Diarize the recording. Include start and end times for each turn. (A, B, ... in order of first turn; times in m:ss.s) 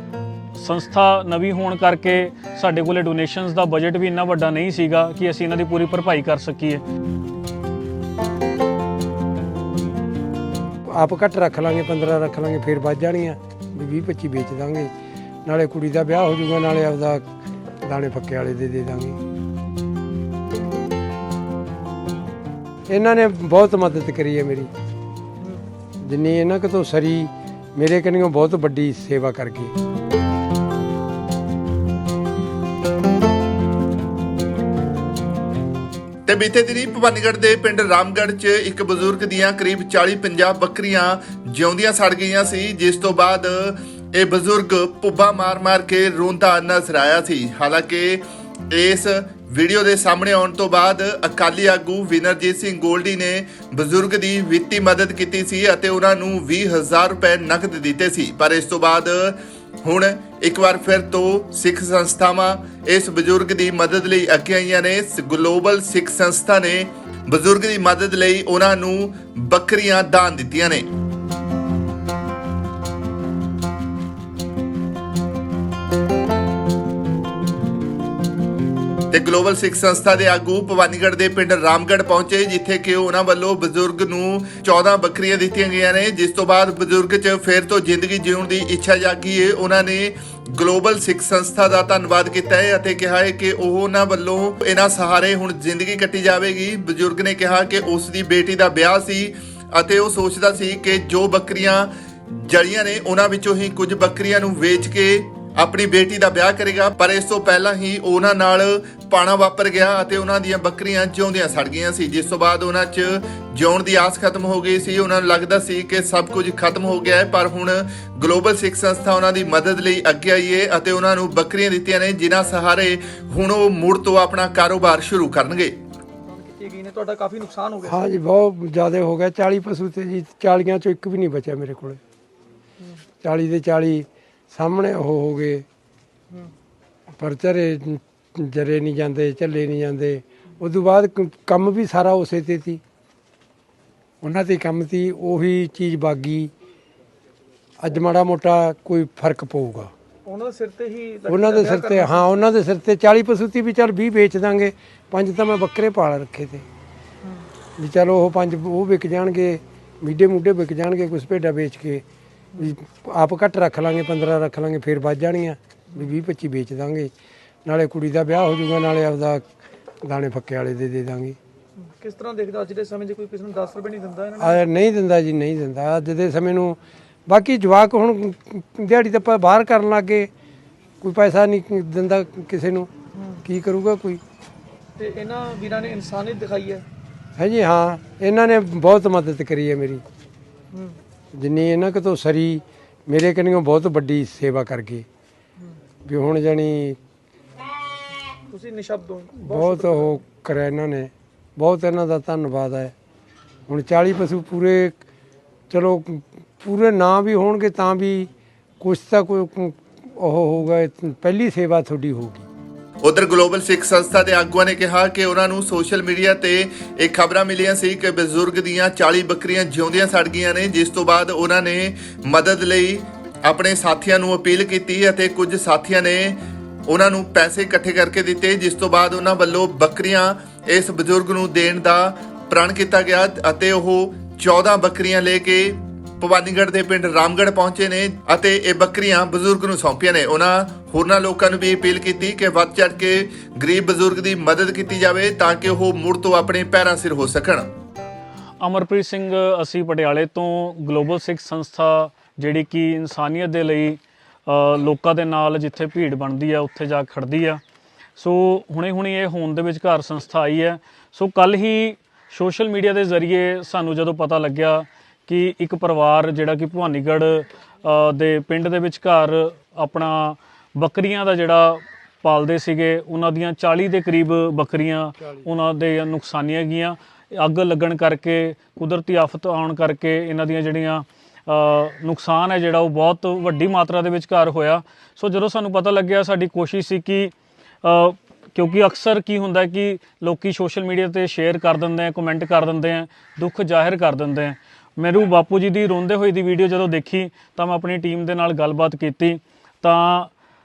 0:00.6-0:06.8 A
0:11.0-0:14.9 B
0:15.5-0:17.2 B
0:17.8-0:19.2 B
0:22.9-0:24.7 B
0:26.1-0:29.7 B
0:36.3-1:10.8 C
1:19.1-2:05.8 C
2:06.3-2:08.0 D
2:07.9-2:12.0 B
2:13.2-2:15.6 B
2:17.2-2:22.8 B
2:24.2-2:26.5 B
2:27.8-2:29.9 B
2:30.3-2:32.2 D
2:31.3-2:36.6 B
2:37.8-2:42.0 B
2:42.6-2:47.1 B
2:47.7-2:49.4 B
2:50.0-2:51.4 B
2:51.8-2:54.6 D
2:54.4-3:00.3 B
3:01.0-3:02.9 B
3:03.2-3:03.4 D
3:03.4-3:04.2 B
3:05.0-3:06.8 D
3:07.4-3:10.0 B
3:10.7-3:11.0 D
3:11.4-3:15.0 B
3:16.1-3:17.0 B
3:18.5-3:20.1 D
3:19.4-3:22.9 B
3:23.7-3:25.0 B
3:25.7-3:28.3 B
3:28.8-3:32.4 B
3:33.0-4:07.7 C
4:08.6-4:17.6 A
4:18.2-5:00.3 A